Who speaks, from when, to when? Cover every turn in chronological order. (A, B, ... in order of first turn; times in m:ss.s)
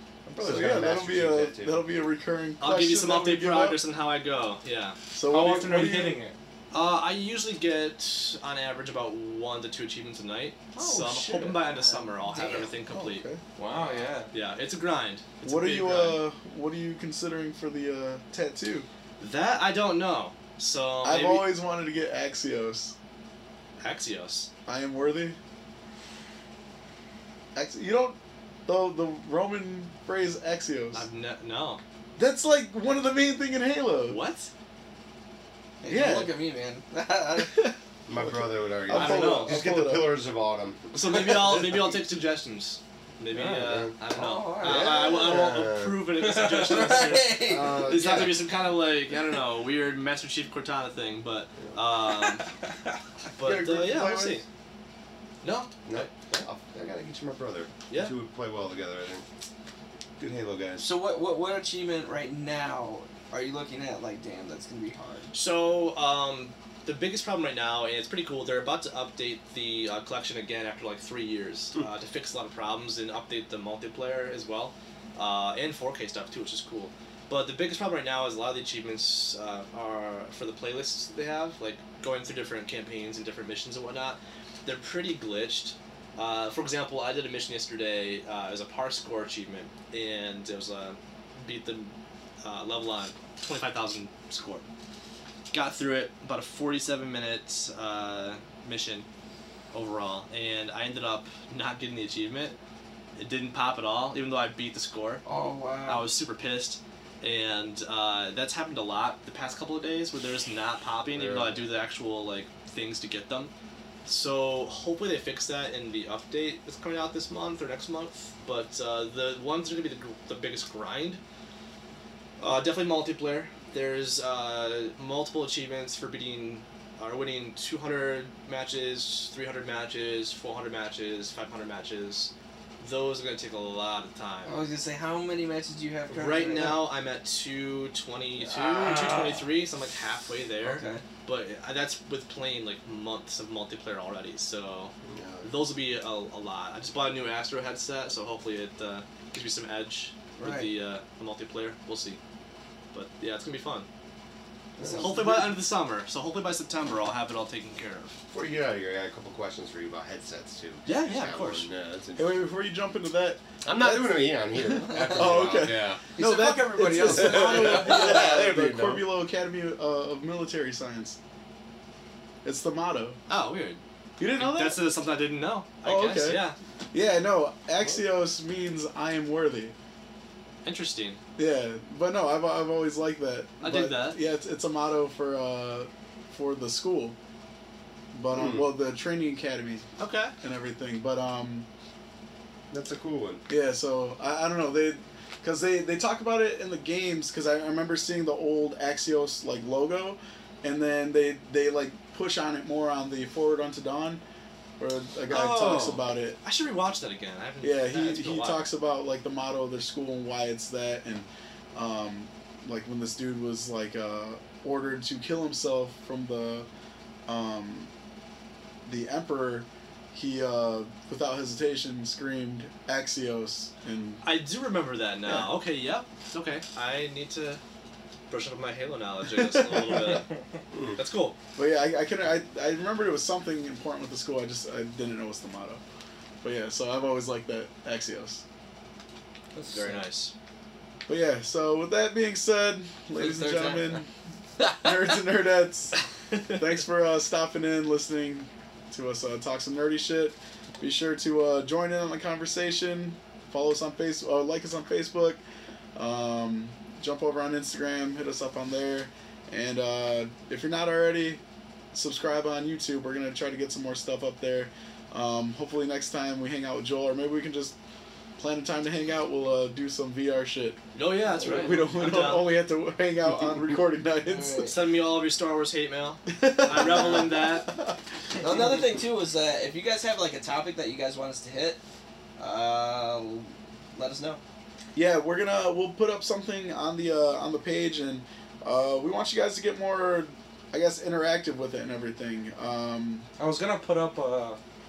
0:00.3-0:03.8 A
0:00.4-0:01.8 B
0:02.6-0:05.0 C
0:05.1-0:06.2 A
0:05.3-0:06.3 D
0:06.7-0:16.2 C
0:10.8-0:12.7 E
0:12.9-0:13.4 A
0:13.6-0:14.3 D
0:15.4-0:18.9 A
0:19.2-0:21.5 C
0:21.0-0:22.9 A
0:23.8-0:24.5 C
0:24.6-0:25.4 A
0:27.5-0:31.0 A
0:30.9-0:31.8 C
0:32.2-0:34.2 A
0:34.1-0:34.5 C
0:35.8-0:37.7 E
0:35.8-0:36.3 A
0:37.4-0:40.2 A
0:38.1-0:40.9 B
0:38.9-0:39.6 C
0:40.9-0:52.5 C
0:43.3-0:43.9 B
0:44.1-0:45.5 E
0:44.6-0:46.1 B
0:46.3-0:46.8 D
0:46.4-0:47.9 E
0:47.4-0:48.5 B
0:53.4-0:54.4 C
0:53.4-0:54.4 A
0:55.4-0:56.3 C
0:55.8-0:59.2 B
1:00.2-1:00.9 B
1:00.8-1:05.3 E
1:05.3-1:31.9 C
1:32.4-1:34.6 C
1:35.5-1:39.0 C
1:39.7-1:42.6 C
1:43.2-1:45.2 C
1:45.2-1:46.1 E
1:45.8-1:53.5 C
1:51.1-1:51.7 B
1:54.0-2:01.2 C
2:02.4-2:14.6 C
2:14.4-2:16.9 E
2:16.1-2:32.2 C
2:18.4-2:19.0 E
2:18.7-2:19.4 D
2:20.6-2:21.0 E
2:25.1-2:25.5 B
2:30.4-2:30.7 E
2:32.9-2:33.9 C
2:34.8-2:35.3 B
2:34.9-2:38.2 C
2:38.3-2:42.5 B
2:40.8-2:41.7 C
2:42.2-2:51.2 A
2:43.6-2:46.0 B
2:44.9-2:45.3 E
2:46.2-2:48.5 E
2:47.5-2:48.6 B
2:48.7-2:49.0 D
2:52.4-2:53.2 A
2:53.3-2:53.8 C
2:54.2-2:54.8 A
2:54.3-2:56.6 C
2:55.8-2:59.7 A
3:00.6-3:01.2 C
3:01.4-3:07.1 A
3:03.6-3:04.2 C
3:08.1-3:09.8 A
3:08.3-3:08.7 B
3:10.0-3:10.3 C
3:10.4-3:11.6 A
3:12.7-3:13.4 B
3:13.5-3:24.2 A
3:24.8-3:26.4 A
3:25.3-3:28.6 C
3:27.6-3:36.7 A
3:37.3-3:37.9 A
3:38.8-3:44.2 A
3:44.2-3:47.6 C
3:45.2-3:45.5 A
3:48.3-3:50.3 C
3:50.7-3:51.0 B
3:50.9-3:51.4 C
3:51.6-3:55.8 A
3:56.4-3:58.4 A
3:59.5-4:00.1 E
3:59.7-4:00.3 C
4:01.1-4:04.1 A
4:03.1-4:04.0 E
4:04.6-4:06.0 A
4:06.5-4:15.4 A
4:15.9-4:21.4 A
4:21.9-4:27.7 A
4:28.4-4:30.8 A
4:30.9-4:32.6 C
4:31.4-4:34.7 A
4:34.2-4:34.7 E
4:34.6-4:37.7 C
4:36.3-4:37.9 A
4:38.4-4:41.8 E
4:42.4-4:44.4 E
4:44.9-4:53.2 A
4:53.4-4:54.6 D